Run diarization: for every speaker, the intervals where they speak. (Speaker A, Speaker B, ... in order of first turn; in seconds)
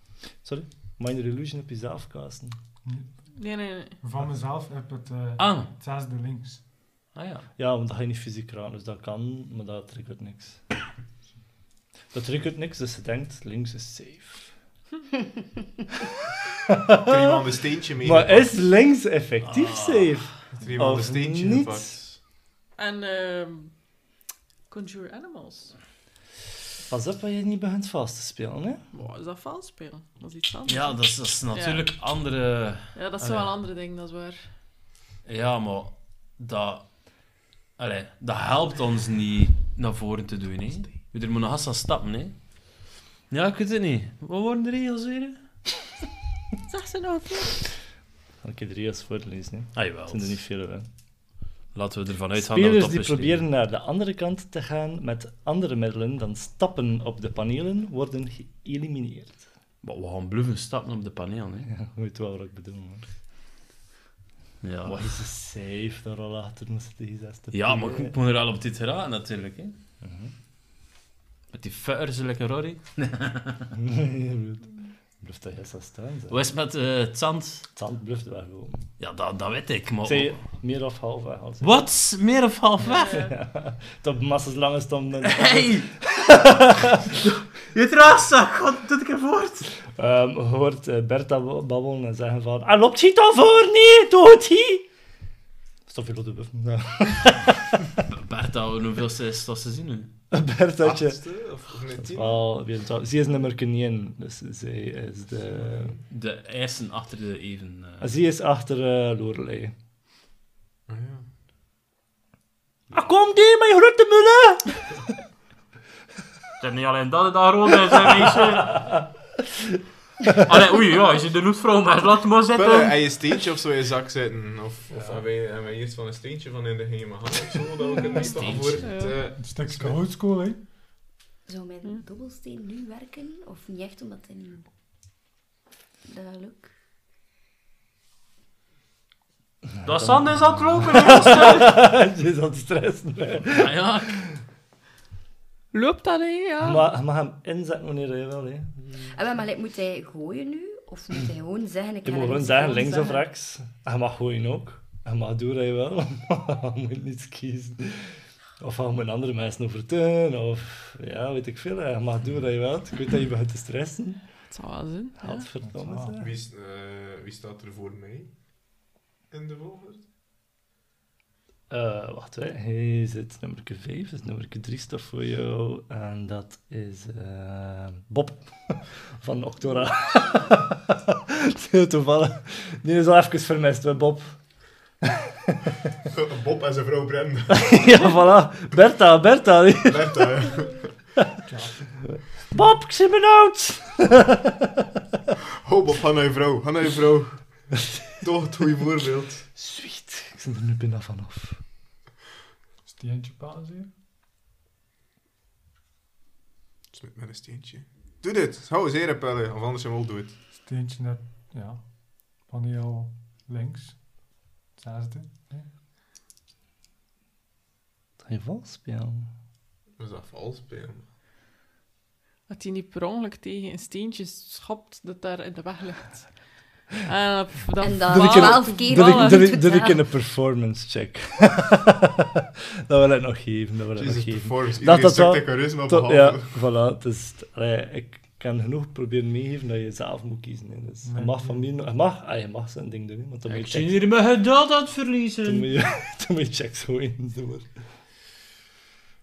Speaker A: 0.4-2.6, 7.6-10.6, 12.1-14.5, 16.7-17.4, 18.0-21.9, 26.9-28.8, 48.4-50.9, 52.4-59.4, 61.7-63.1, 64.9-68.2, 70.0-70.3, 73.7-74.7, 75.2-76.4, 77.8-78.9, 80.0-81.8, 83.0-87.4, 89.9-94.9, 95.9-98.0, 100.3-101.2, 101.9-106.0, 108.0-109.8, 112.9-115.0, 139.8-144.2, 146.6-148.9, 152.1-164.2, 165.2-166.3, 171.7-184.4, 185.0-185.7, 187.5-190.3, 192.2-194.9, 199.6-201.6, 218.2-219.3, 228.0-243.9, 245.4-247.7
Speaker B: 2.9-3.1, 4.0-6.6, 129.3-130.6, 165.6-166.1, 191.5-191.8, 202.9-203.9, 210.6-215.7, 241.1-241.6
Speaker C: 3.3-4.0, 22.8-23.7, 24.7-25.8, 28.9-31.9, 33.0-34.5, 46.7-47.6, 82.8-83.3, 128.0-129.3, 145.7-146.9, 152.7-153.2, 164.5-165.5, 222.5-229.5
Speaker D: 5.4-5.7, 7.2-7.5, 19.4-20.3, 30.7-33.5, 35.3-36.9, 37.8-42.4, 43.3-45.4, 49.8-50.3, 51.7-53.4, 59.8-61.7, 64.6-65.1, 67.5-69.8, 71.5-73.7, 76.3-77.7, 79.0-80.4, 81.6-83.3, 85.2-86.1, 87.7-89.7, 98.0-100.1, 106.1-108.1, 116.6-119.0, 120.3-123.0, 128.2-129.0, 139.8-141.8, 143.5-144.2, 243.5-245.7
Speaker E: 17.0-18.5, 20.5-22.2, 100.8-102.4, 110.9-111.2, 122.5-130.0, 166.2-168.3, 169.3-170.1, 186.1-188.0, 189.9-190.9, 195.6-199.4, 206.9-210.4, 220.0-221.0, 234.0-236.5
Speaker F: 131.5-134.7, 136.1-136.7, 149.1-153.2, 227.8-230.0